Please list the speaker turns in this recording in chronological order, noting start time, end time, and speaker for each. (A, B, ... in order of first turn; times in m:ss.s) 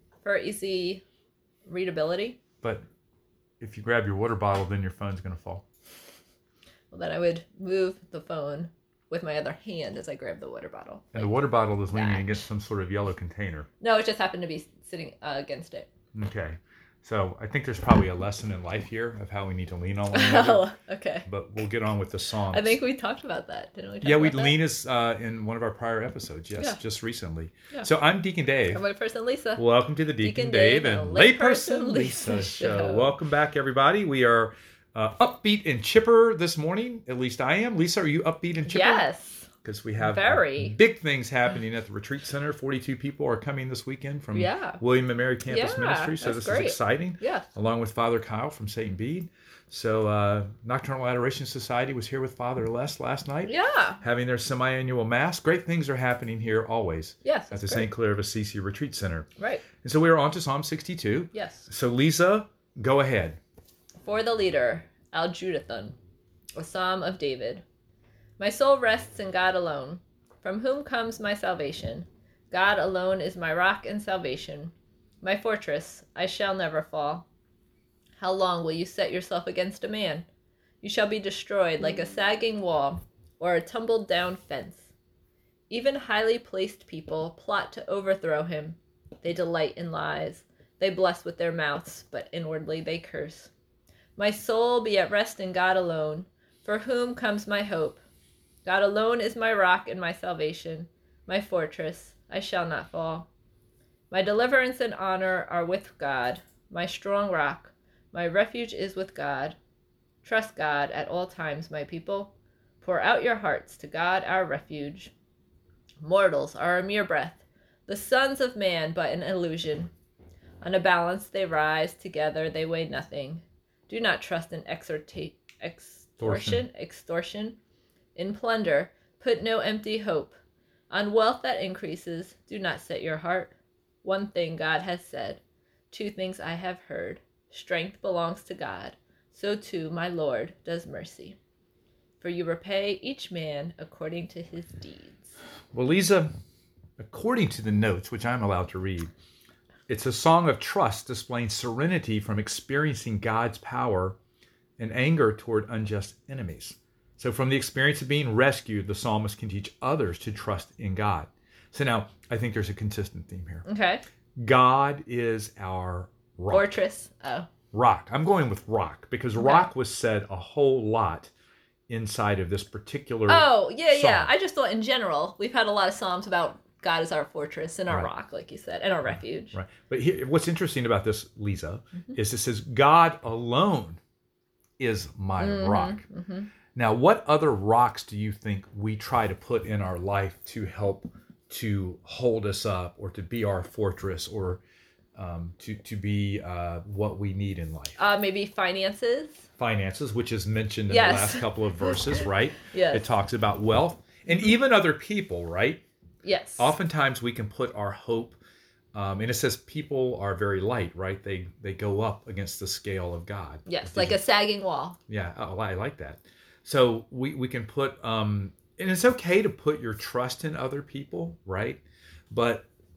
0:00.2-0:01.0 A
0:01.7-0:02.4 A
0:03.6-0:05.6 B
0:06.9-0:11.3 A
0:11.1-0:13.7 B
0:11.9-0:12.4 A
0:13.8-0:15.9 A
0:16.1-0:20.7 B
0:20.1-0:21.3 A
0:21.3-0:22.8 B
0:22.5-0:24.6 A
0:24.0-0:28.8 B
0:28.7-0:29.6 A
0:29.6-0:39.0 B
0:30.2-0:33.1 A
0:38.7-0:40.8 A
0:39.6-1:03.4 B
0:44.3-0:44.8 A
0:45.5-0:47.5 A
0:53.4-0:54.0 A
0:57.2-0:57.9 A
0:59.4-0:59.7 A
1:01.3-1:01.7 A
1:04.0-1:06.0 A
1:06.6-1:07.6 A
1:08.4-1:17.3 A
1:18.2-1:20.3 A
1:20.8-1:24.9 A
1:25.7-1:33.5 A
1:34.2-1:38.0 A
1:38.6-1:43.3 A
1:44.1-1:49.6 A
1:50.2-1:55.1 A
1:56.0-1:59.9 A
2:00.6-2:07.6 A
2:06.2-2:06.6 B
2:08.2-2:10.4 A
2:10.9-2:21.4 A
2:22.2-2:25.4 A
2:25.7-2:26.3 B
2:27.0-2:29.1 B
2:29.9-2:34.2 B
2:34.8-2:43.7 B
2:43.6-2:44.0 A
2:44.4-2:46.7 B
2:46.5-2:47.5 A
2:47.7-2:51.3 B
2:49.4-2:49.7 A
2:51.9-2:54.3 B
2:53.3-2:59.6 A
2:59.1-3:04.0 B
3:04.8-3:06.0 B
3:05.4-3:06.5 A
3:06.7-3:14.6 B
3:15.2-3:18.0 B
3:18.0-3:19.5 A
3:19.6-3:25.8 B
3:20.9-3:23.0 A
3:26.2-3:26.7 A
3:26.6-3:28.4 B
3:28.9-3:34.2 B
3:33.7-3:35.0 A
3:35.1-3:42.7 B